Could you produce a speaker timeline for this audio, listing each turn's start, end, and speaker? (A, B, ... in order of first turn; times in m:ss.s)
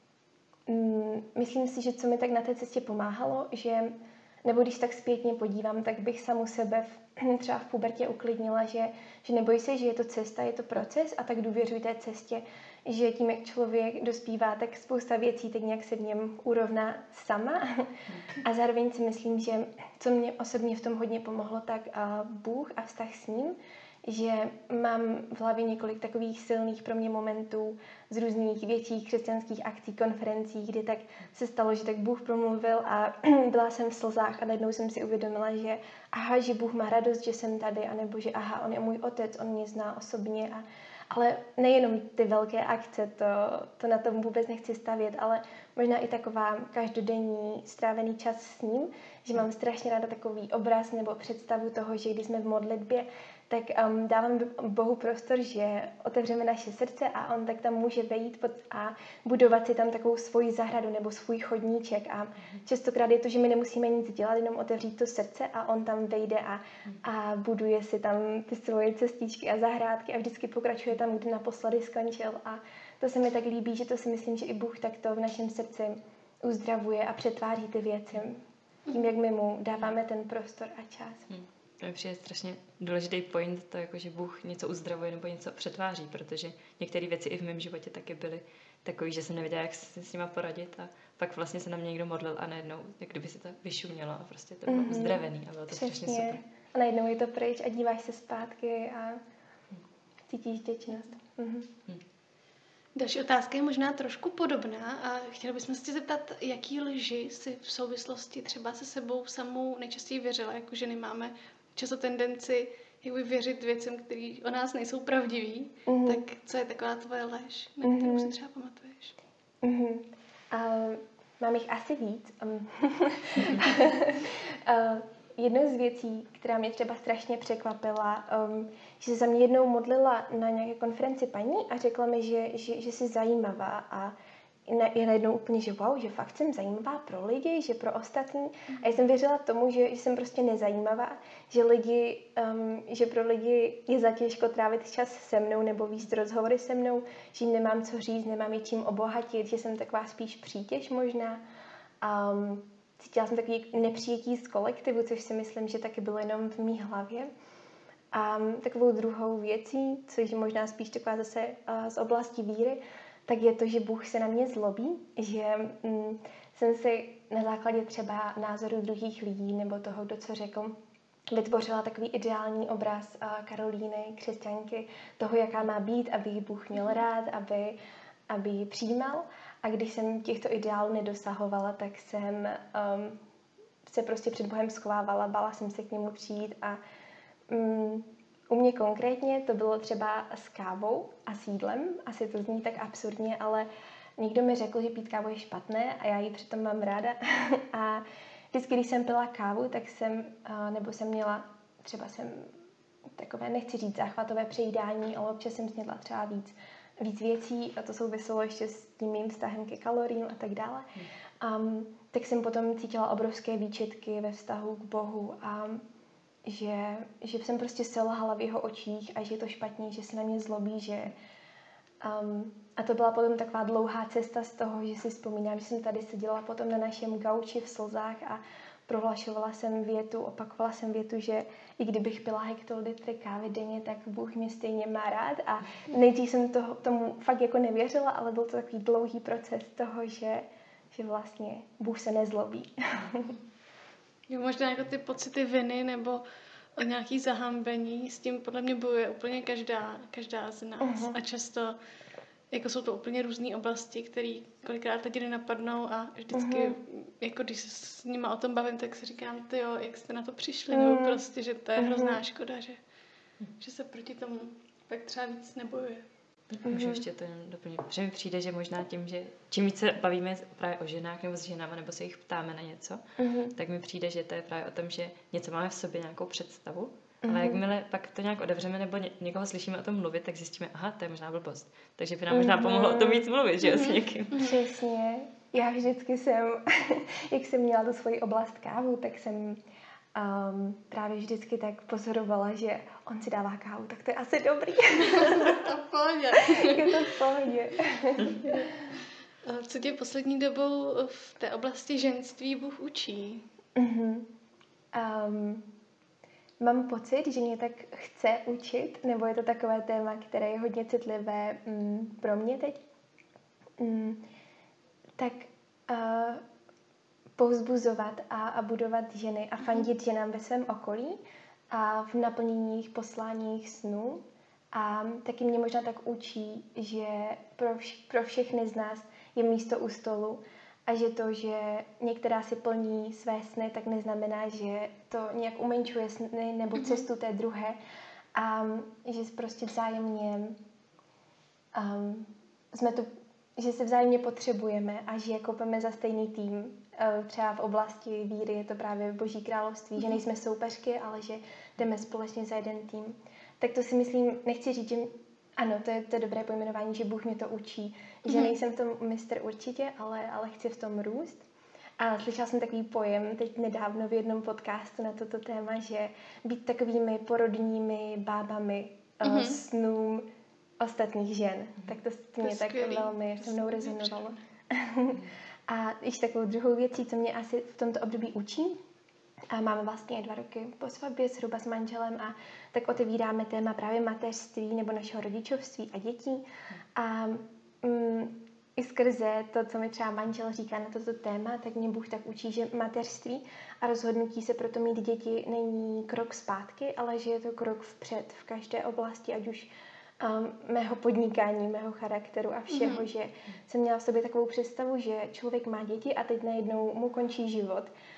0:00.7-1:21.3 A
1:21.3-1:36.4 B
1:34.7-1:39.2 A
1:40.3-1:41.7 A
1:43.0-1:59.2 C
1:55.9-1:56.2 A
1:57.8-1:58.4 A
1:59.6-2:14.2 A
2:14.7-2:31.4 A
2:32.0-2:37.3 A
2:38.1-2:50.7 A
2:51.3-2:57.8 A
2:58.3-3:03.2 A
3:03.8-3:06.8 A
3:07.5-3:22.5 A
3:23.1-3:30.9 A
3:31.4-3:35.8 A
3:36.4-3:41.1 A
3:42.0-4:03.4 A
4:04.3-4:06.2 C
4:06.8-4:11.8 C
4:10.8-4:11.2 A
4:12.5-4:22.8 C
4:16.3-4:16.8 A
4:20.7-4:21.2 A
4:21.8-4:22.2 A
4:23.6-4:26.1 C
4:26.5-4:33.0 B
4:26.6-4:27.0 A
4:33.2-4:33.6 A
4:33.6-4:44.4 B
4:37.2-4:37.6 A
4:42.3-4:43.3 A
4:43.6-4:44.6 C
4:44.3-4:49.6 A
4:50.1-4:55.7 A
4:55.1-4:57.1 C
4:56.3-4:58.7 A
4:59.4-5:03.4 C
5:03.8-5:04.3 A
5:04.9-5:05.6 A
5:06.6-5:12.8 A
5:13.8-5:14.2 A
5:15.2-5:16.4 A
5:17.4-5:21.2 A
5:21.7-5:37.8 A
5:36.8-5:37.0 C
5:38.4-5:40.6 A
5:41.7-6:01.4 A
5:58.3-5:58.6 C
6:02.0-6:10.3 A
6:09.2-6:09.6 C
6:10.8-6:18.8 A
6:12.4-6:14.4 C
6:19.5-6:26.4 A
6:27.0-6:47.9 A
6:42.7-6:43.1 C